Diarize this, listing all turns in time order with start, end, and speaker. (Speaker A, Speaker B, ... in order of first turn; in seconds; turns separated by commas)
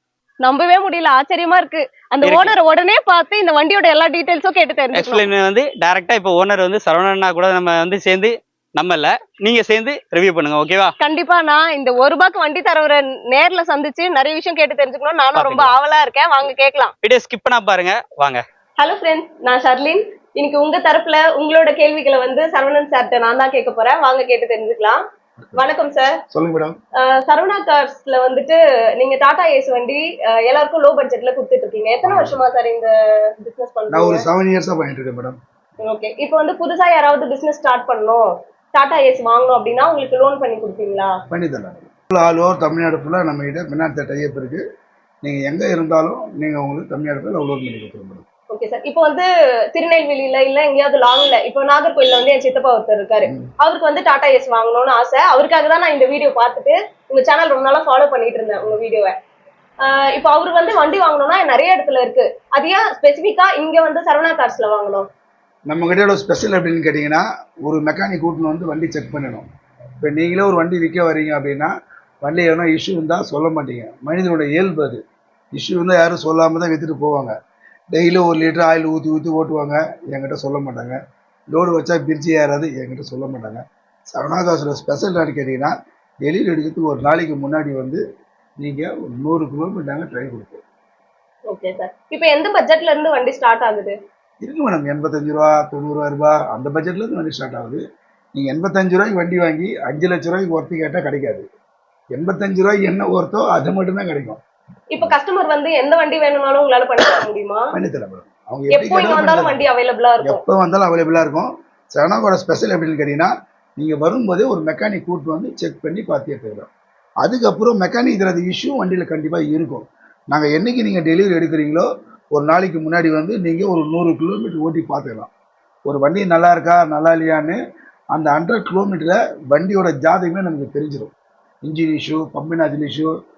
Speaker A: 0.4-5.3, Speaker B: 2.2-2.5, Speaker B: 4.9-10.9, Speaker A: 11.0-16.9, Speaker B: 15.3-15.7, Speaker B: 17.0-18.4, Speaker A: 18.8-25.0, Speaker A: 25.5-26.2, Speaker C: 26.3-26.8, Speaker A: 27.0-34.2, Speaker C: 32.0-32.4, Speaker C: 33.9-35.4, Speaker A: 35.8-41.1, Speaker C: 41.3-44.6, Speaker C: 45.2-48.2, Speaker A: 48.5-59.1, Speaker A: 59.8-65.0, Speaker C: 65.7-69.5, Speaker C: 70.0-75.0, Speaker C: 75.5-77.3, Speaker C: 77.9-81.0, Speaker C: 81.5-85.7, Speaker C: 86.2-88.0, Speaker C: 88.6-90.6, Speaker A: 91.5-94.0, Speaker C: 94.4-97.8, Speaker C: 98.3-101.5, Speaker C: 102.1-104.4, Speaker A: 104.9-107.7, Speaker C: 107.7-109.6, Speaker A: 108.7-110.4, Speaker C: 110.2-116.7, Speaker C: 117.2-125.3, Speaker C: 125.8-127.6, Speaker C: 128.1-131.1, Speaker C: 131.6-133.1